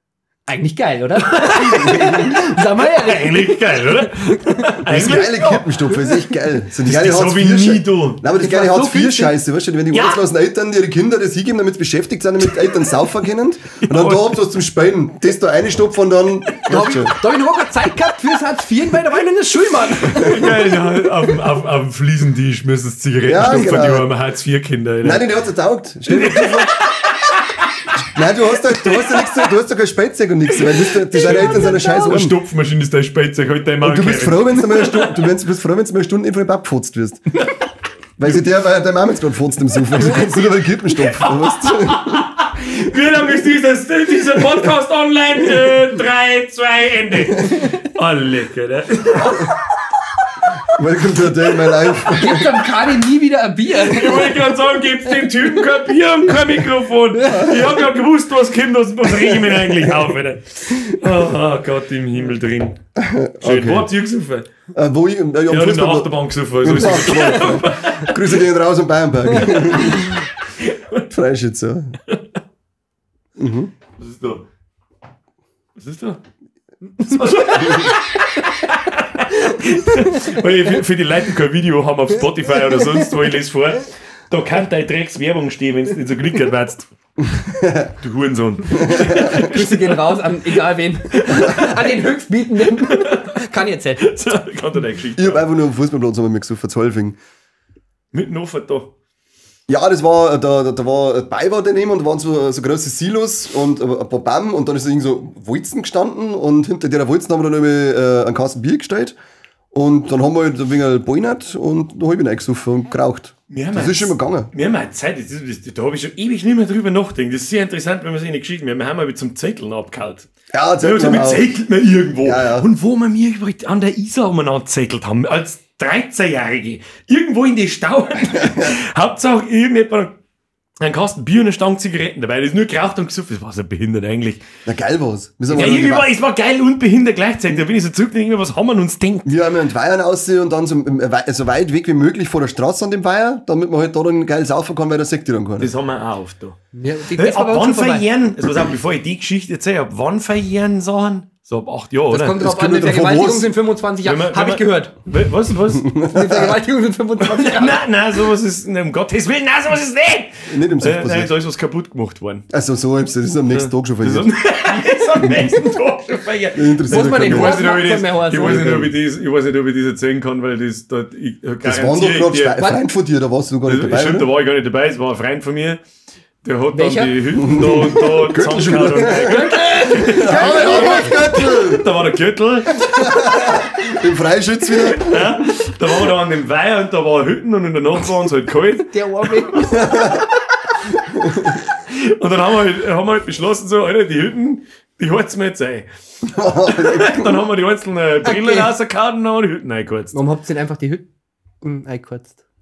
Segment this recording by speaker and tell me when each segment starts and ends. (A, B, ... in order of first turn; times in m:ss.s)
0:00.5-0:06.4 A
0:01.3-0:02.3 B
0:03.0-0:05.6 B
0:04.8-0:17.2 C
0:06.8-0:08.2 B
0:08.3-0:09.3 A
0:09.9-0:10.2 B
0:13.8-0:14.4 B
0:16.7-0:20.4 A
0:20.0-0:25.2 B
0:23.3-0:24.1 C
0:25.0-0:26.8 C
0:26.1-0:27.9 B
0:28.0-0:32.4 C
0:28.8-0:29.4 B
0:30.9-0:35.1 B
0:33.8-0:37.2 C
0:37.3-0:37.6 B
0:38.2-0:42.0 C
0:41.1-0:49.7 B
0:50.7-0:52.6 C
0:52.1-0:54.6 A
0:53.9-1:02.8 B
0:57.2-0:57.6 A
1:03.0-1:03.9 C
1:03.4-1:04.5 B
1:04.7-1:10.1 C
1:05.5-1:08.3 B
1:09.4-1:11.1 B
1:11.1-1:12.0 C
1:13.4-1:13.7 C
1:14.0-1:14.4 B
1:15.8-1:16.2 B
1:17.0-1:26.9 B
1:17.4-1:17.9 A
1:27.3-1:27.9 C
1:28.0-1:30.6 B
1:28.7-1:29.4 C
1:29.1-1:34.2 A
1:31.1-1:31.9 B
1:32.8-1:33.4 B
1:34.0-1:35.4 B
1:35.2-1:37.2 C
1:38.1-1:38.9 B
1:39.7-1:49.2 C
1:49.7-1:54.5 C
1:53.5-2:00.3 B
2:00.5-2:01.5 C
2:00.8-2:10.2 B
2:02.2-2:02.7 C
2:08.3-2:08.7 C
2:10.8-2:14.4 B
2:14.6-2:16.1 C
2:15.5-2:19.3 B
2:19.2-2:25.7 C
2:25.6-2:26.6 B
2:26.7-2:28.0 A
2:27.1-2:32.4 B
2:32.1-2:34.9 A
2:32.4-2:33.5 C
2:34.0-2:35.9 B
2:35.8-2:36.6 C
2:35.9-2:37.9 A
2:37.3-2:42.5 B
2:40.5-2:41.3 C
2:42.5-2:44.3 C
2:43.5-2:52.6 B
2:45.2-2:45.6 C
2:46.5-2:47.6 C
2:46.9-2:48.8 A
2:48.4-2:48.9 C
2:51.6-2:54.3 C
2:53.6-2:55.8 B
2:56.4-3:03.6 B
2:56.7-2:57.6 A
2:57.4-3:01.9 C
2:59.0-3:01.3 A
3:02.9-3:05.4 C
3:04.9-3:08.9 B
3:08.9-3:09.8 A
3:09.5-3:10.0 B
3:09.7-3:10.2 C
3:11.2-3:11.5 C
3:11.7-3:15.9 B
3:16.2-3:17.3 C
3:16.6-3:20.2 B
3:18.2-3:18.7 A
3:20.1-3:21.0 A
3:21.6-3:22.4 A